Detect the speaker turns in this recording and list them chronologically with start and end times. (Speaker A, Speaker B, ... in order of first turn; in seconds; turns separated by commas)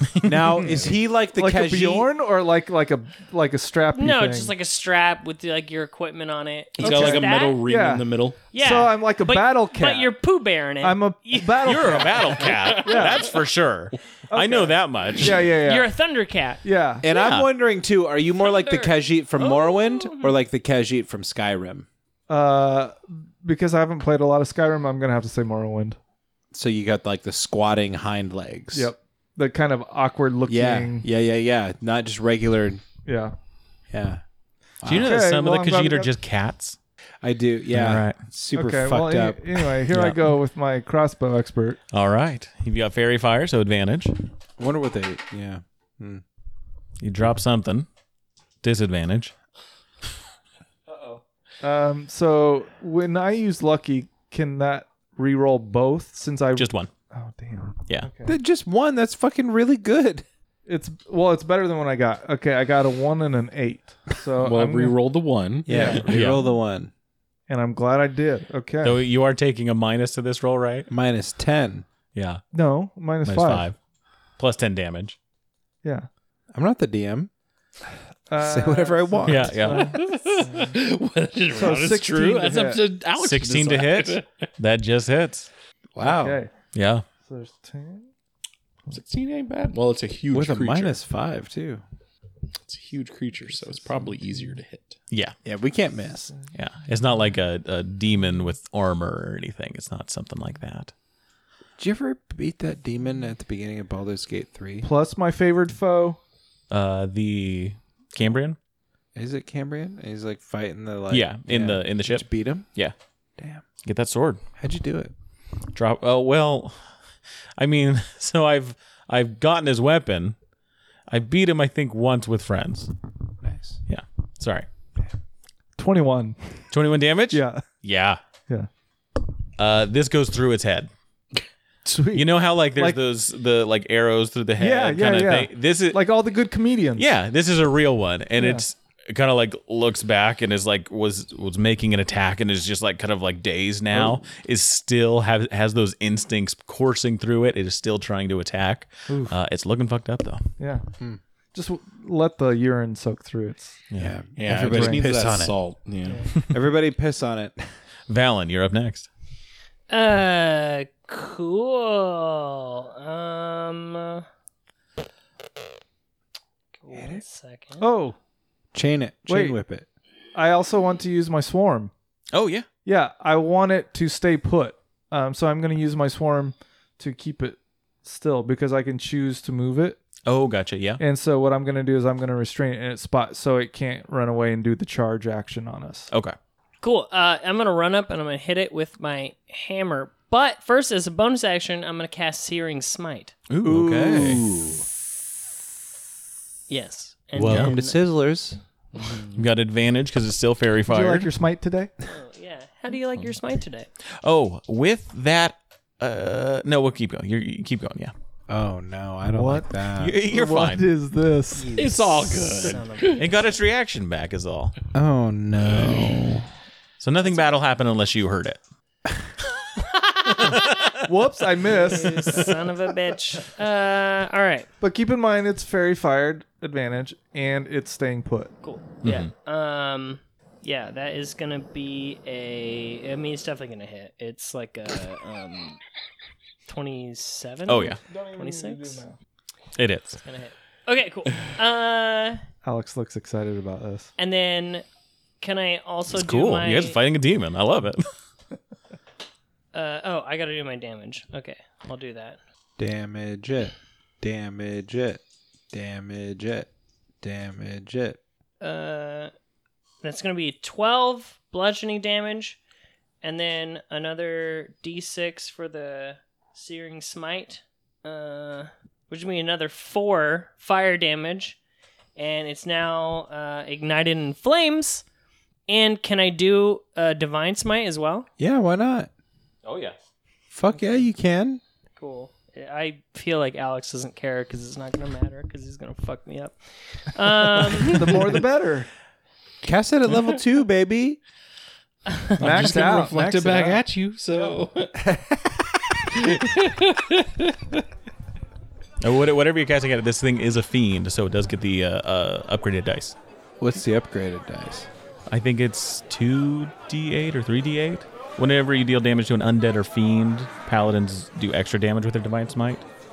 Speaker A: 0.2-2.1, Speaker B: 1.3-4.5, Speaker C: 3.9-7.6, Speaker D: 6.8-8.5, Speaker B: 6.8-10.1, Speaker C: 8.5-12.1, Speaker B: 10.8-13.3, Speaker E: 11.6-15.5, Speaker D: 12.4-13.3, Speaker B: 14.3-15.9, Speaker C: 15.6-16.6, Speaker B: 16.6-17.1, Speaker A: 17.0-21.9, Speaker E: 17.1-17.5, Speaker C: 18.4-20.4, Speaker B: 22.3-26.0, Speaker A: 26.5-28.9, Speaker B: 28.7-31.0, Speaker A: 30.5-32.8, Speaker B: 33.0-33.3, Speaker A: 33.9-34.2, Speaker A: 34.8-35.1, Speaker E: 34.9-36.8, Speaker B: 34.9-36.1, Speaker A: 37.2-39.4, Speaker E: 37.7-38.2, Speaker B: 38.5-41.8, Speaker E: 39.9-40.3, Speaker E: 41.9-44.1, Speaker A: 44.6-46.2, Speaker E: 47.0-47.9, Speaker E: 48.6-49.3, Speaker B: 50.9-58.3, Speaker E: 56.5-56.9, Speaker A: 58.2-60.2, Speaker B: 60.6-65.0, Speaker D: 64.4-66.2, Speaker A: 65.7-66.9, Speaker B: 65.7-66.0, Speaker E: 66.0-66.4, Speaker B: 67.5-69.0, Speaker E: 68.8-70.9, Speaker A: 70.9-71.8, Speaker E: 72.1-72.4, Speaker B: 72.5-73.7, Speaker E: 73.2-73.8, Speaker E: 74.4-75.2, Speaker A: 76.5-77.3, Speaker B: 78.3-80.8, Speaker A: 78.4-79.9, Speaker E: 79.2-80.0, Speaker D: 79.9-84.5, Speaker B: 81.5-82.9, Speaker E: 83.2-85.5, Speaker A: 86.0-86.4, Speaker B: 86.0-86.5, Speaker E: 86.7-87.0, Speaker B: 87.2-88.1, Speaker D: 88.9-91.0, Speaker A: 90.3-91.8, Speaker D: 92.6-95.0, Speaker B: 93.8-94.1, Speaker A: 95.4-96.3, Speaker E: 96.5-100.9, Speaker A: 101.8-104.9, Speaker B: 104.8-106.2, Speaker E: 106.7-108.6, Speaker A: 109.1-112.7, Speaker E: 111.1-112.9, Speaker A: 113.4-113.6, Speaker E: 113.8-114.4, Speaker A: 114.6-115.1, Speaker E: 115.7-116.8, Speaker E: 117.6-120.3, Speaker E: 121.1-122.9, Speaker A: 123.4-123.8, Speaker E: 123.9-124.7, Speaker B: 125.8-126.4, Speaker E: 126.7-128.2, Speaker B: 127.3-127.6, Speaker E: 129.6-130.9, Speaker B: 131.8-133.0, Speaker E: 132.1-136.0, Speaker B: 134.6-137.1, Speaker E: 136.9-150.5, Speaker B: 138.4-138.6, Speaker B: 149.1-149.3, Speaker B: 150.6-150.8, Speaker B: 151.5-153.8, Speaker E: 153.9-154.2, Speaker A: 154.0-155.5, Speaker D: 154.3-156.3, Speaker B: 154.5-155.1, Speaker A: 156.5-157.6, Speaker E: 158.1-159.1, Speaker C: 159.9-164.2, Speaker C: 166.8-167.8, Speaker A: 166.9-167.2, Speaker B: 167.8-168.2, Speaker A: 168.7-169.9, Speaker B: 169.3-169.6, Speaker B: 170.3-171.9, Speaker E: 172.3-172.7, Speaker B: 172.8-180.0, Speaker E: 180.2-181.0, Speaker B: 181.0-186.1, Speaker E: 186.1-186.3, Speaker C: 186.8-193.3, Speaker E: 193.5-194.4, Speaker A: 193.6-194.8, Speaker C: 196.7-198.0, Speaker A: 197.3-198.6, Speaker E: 197.4-197.8, Speaker D: 198.9-199.4, Speaker E: 199.3-201.3, Speaker B: 200.9-201.9, Speaker C: 202.1-203.9, Speaker E: 204.2-208.1, Speaker A: 208.5-210.2, Speaker B: 209.3-209.7, Speaker E: 210.0-210.9, Speaker B: 210.3-212.0, Speaker A: 211.6-212.5, Speaker D: 211.7-213.3, Speaker C: 212.5-213.3, Speaker E: 213.1-214.7, Speaker A: 214.9-216.5, Speaker E: 217.0-218.6, Speaker E: 220.3-221.0, Speaker C: 220.4-220.7, Speaker B: 221.0-222.6, Speaker C: 221.7-224.7, Speaker B: 224.8-228.5, Speaker C: 228.6-235.8, Speaker E: 229.0-229.3, Speaker C: 236.7-239.0, Speaker E: 237.7-238.0, Speaker B: 238.1-239.2, Speaker E: 239.8-240.2, Speaker C: 240.2-242.4, Speaker B: 242.6-244.1, Speaker C: 244.2-244.8, Speaker C: 245.4-247.0, Speaker E: 246.1-248.1, Speaker C: 249.7-252.4, Speaker A: 252.8-255.2, Speaker A: 255.7-256.7, Speaker A: 257.2-258.2, Speaker C: 258.6-259.3, Speaker C: 260.0-262.6, Speaker C: 263.2-271.6, Speaker C: 272.1-275.0, Speaker C: 275.7-278.3, Speaker A: 278.4-279.1, Speaker E: 279.6-279.9, Speaker A: 280.5-281.6, Speaker C: 280.7-281.0, Speaker C: 282.0-288.1, Speaker B: 287.8-288.9, Speaker A: 289.6-291.2, Speaker B: 292.4-293.8, Speaker D: 292.4-295.1, Speaker A: 295.0-295.8, Speaker D: 296.1-297.8, Speaker E: 299.0-303.1, Speaker A: 303.6-304.9, Speaker E: 305.3-312.8